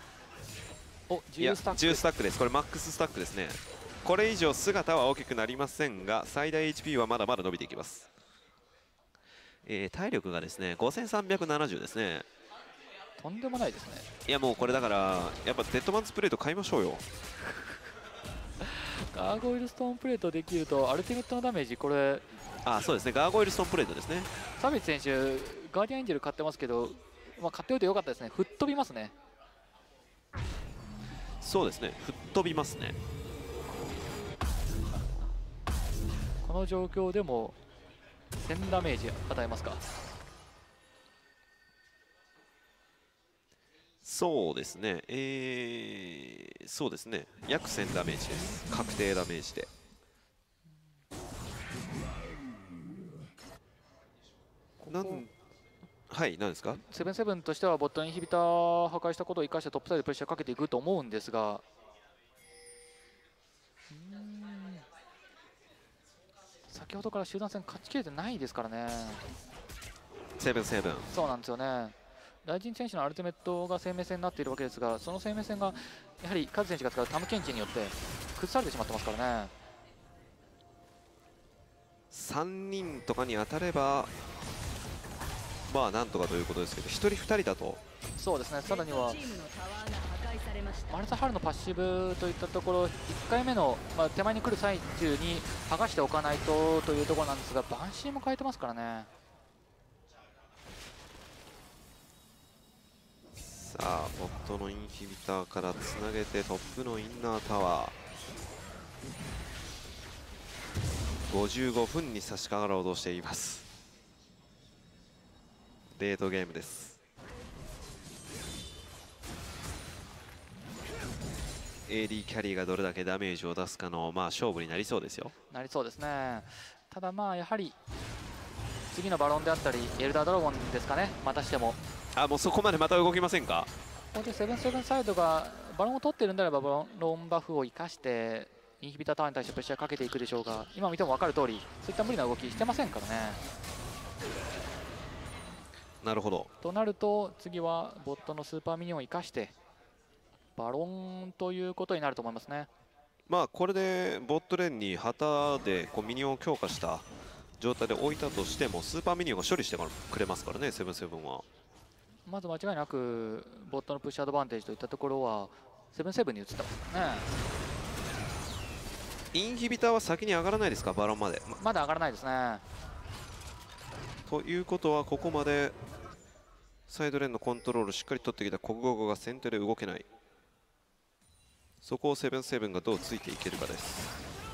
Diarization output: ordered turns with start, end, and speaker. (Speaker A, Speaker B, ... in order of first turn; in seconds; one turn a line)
Speaker A: 1.1-2.0
Speaker B: 1.4-8.1
Speaker B: 9.6-12.2
Speaker A: 13.2-14.1
Speaker B: 14.2-17.0
Speaker A: 18.6-22.2
Speaker B: 22.6-24.3
Speaker A: 24.6-29.1
Speaker B: 31.4-33.0
Speaker A: 36.4-37.6
Speaker A: 38.4-39.8
Speaker B: 44.0-49.7
Speaker A: 54.8-55.2
Speaker B: 54.9-55.3
Speaker B: 56.1-56.8
Speaker A: 56.8-61.6
Speaker A: 63.9-64.8
Speaker A: 66.7-69.2
Speaker B: 70.4-71.1
Speaker A: 71.1-79.5
Speaker B: 82.1-84.1
Speaker B: 85.7-87.8
Speaker A: 88.2-89.2
Speaker C: 88.6-91.0
Speaker A: 90.9-99.1
Speaker B: 103.4-107.9
Speaker B: 111.3-113.7
Speaker B: 115.9-117.0
Speaker B: 121.9-125.3
Speaker A: 125.5-127.7
Speaker A: 128.9-131.8
Speaker B: 132.2-133.7
Speaker A: 134.1-143.4
Speaker B: 146.0-146.5
Speaker A: 146.6-149.5
Speaker A: 150.6-152.7
Speaker B: 153.3-157.1
Speaker B: 157.6-161.4
Speaker A: 162.3-167.3
Speaker B: 169.3-171.6
Speaker A: 171.6-172.6
Speaker B: 174.3-175.8
Speaker B: 176.9-180.1
Speaker B: 181.8-184.1